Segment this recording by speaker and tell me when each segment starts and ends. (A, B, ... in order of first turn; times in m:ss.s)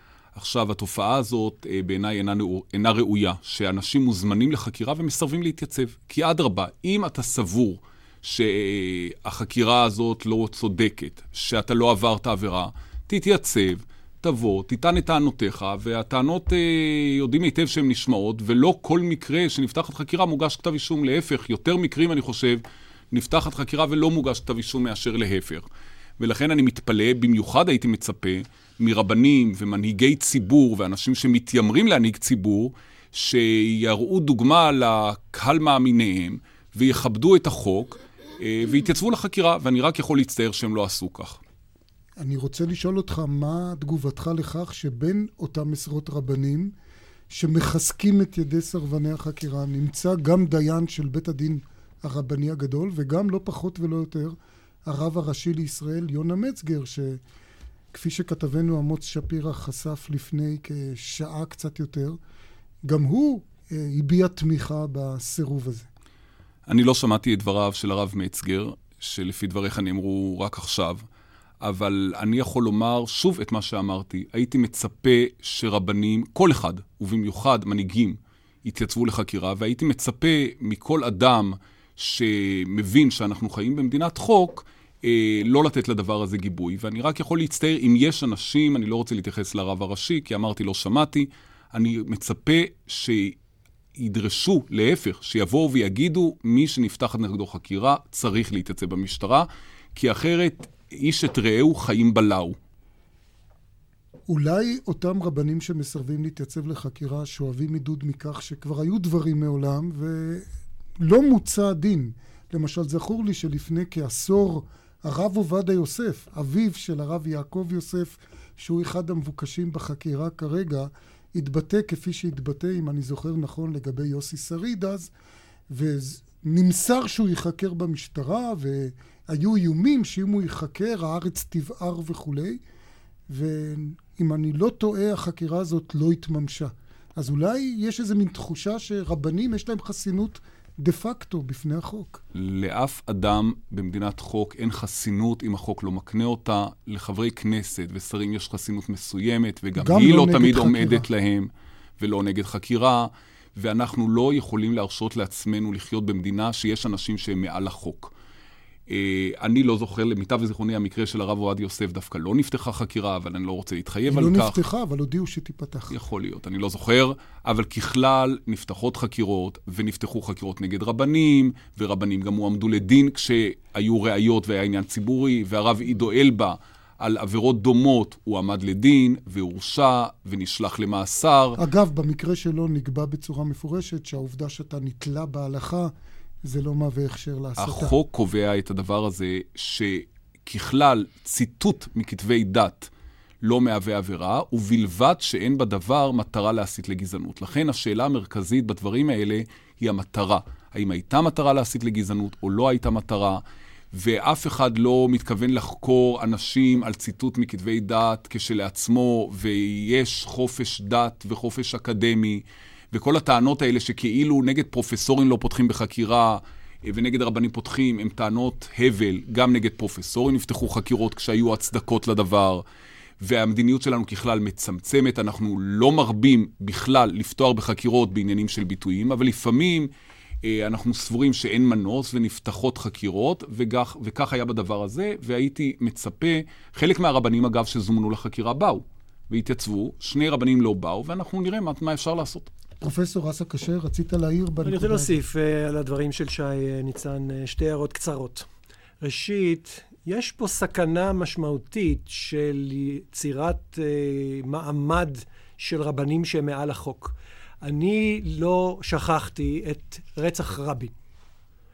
0:00.3-0:25.6 A
0:26.2-0:41.4 A
0:42.2-0:46.7 B
0:47.3-0:54.3 B
0:54.8-0:57.2 B
0:57.9-1:02.2 B
1:02.8-1:05.9 B
1:06.7-1:11.0 A
1:11.6-1:33.4 A
1:34.0-1:42.6 A
1:44.3-1:50.4 B
1:51.0-2:05.1 B
2:05.7-2:12.6 B
2:13.3-2:22.2 B
2:22.3-2:38.1 A
2:29.8-2:31.0 B
2:38.9-2:44.6 A
2:44.1-2:45.9 B
2:45.9-3:01.6 A
3:01.6-3:05.9 B
3:06.4-3:07.9 B
3:07.6-3:12.9 A
3:13.4-3:23.4 A
3:23.9-3:42.6 A
3:43.2-3:49.9 A
3:50.4-4:02.5 A
4:02.8-4:05.2 B
4:04.6-4:08.5 C
4:09.0-4:20.9 C